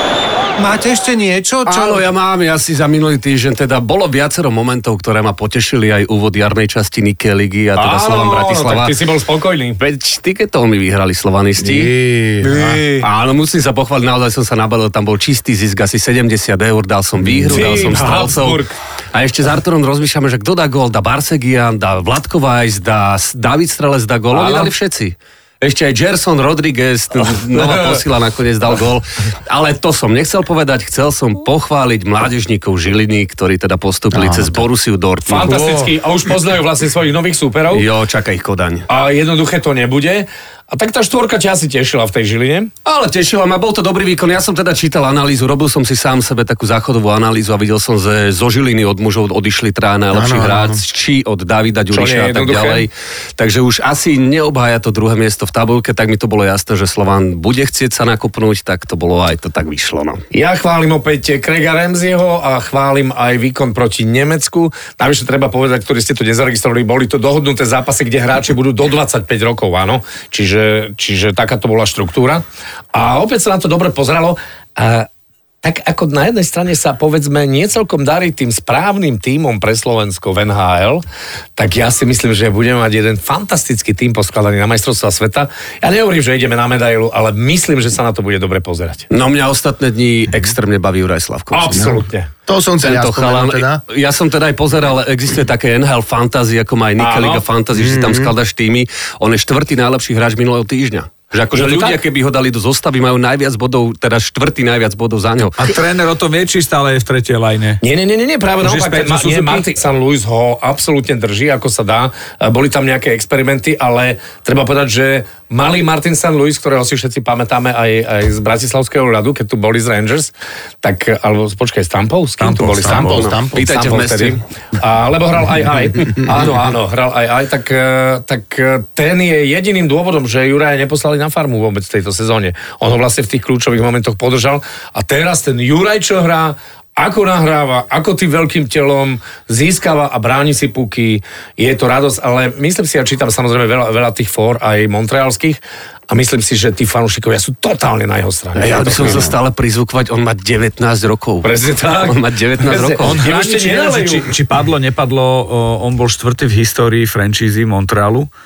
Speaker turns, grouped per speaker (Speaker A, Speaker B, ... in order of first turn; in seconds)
Speaker A: 0.6-2.1, 12.4-13.1
Speaker B: 1.6-8.9, 9.8-11.9, 13.0-18.6, 19.1-35.9, 37.7-38.9, 42.9-60.2, 89.1-92.0, 92.8-105.7, 123.0-124.4, 148.6-153.2
Speaker C: 7.8-9.8, 17.5-18.7, 24.3-24.7, 27.4-28.0, 35.3-37.9, 38.9-42.7, 51.9-52.9, 60.3-75.1, 75.6-81.0, 81.6-89.1, 91.5-92.3, 97.0-97.4, 101.5-102.0, 107.8-120.3, 120.8-149.4, 151.4-154.3
Speaker D: 11.6-12.8, 17.3-17.7, 34.1-34.6, 50.1-50.8, 91.7-93.8, 97.7-98.3, 122.8-123.7
Speaker E: 105.6-107.8, 108.6-109.7, 122.4-123.2, 153.0-158.3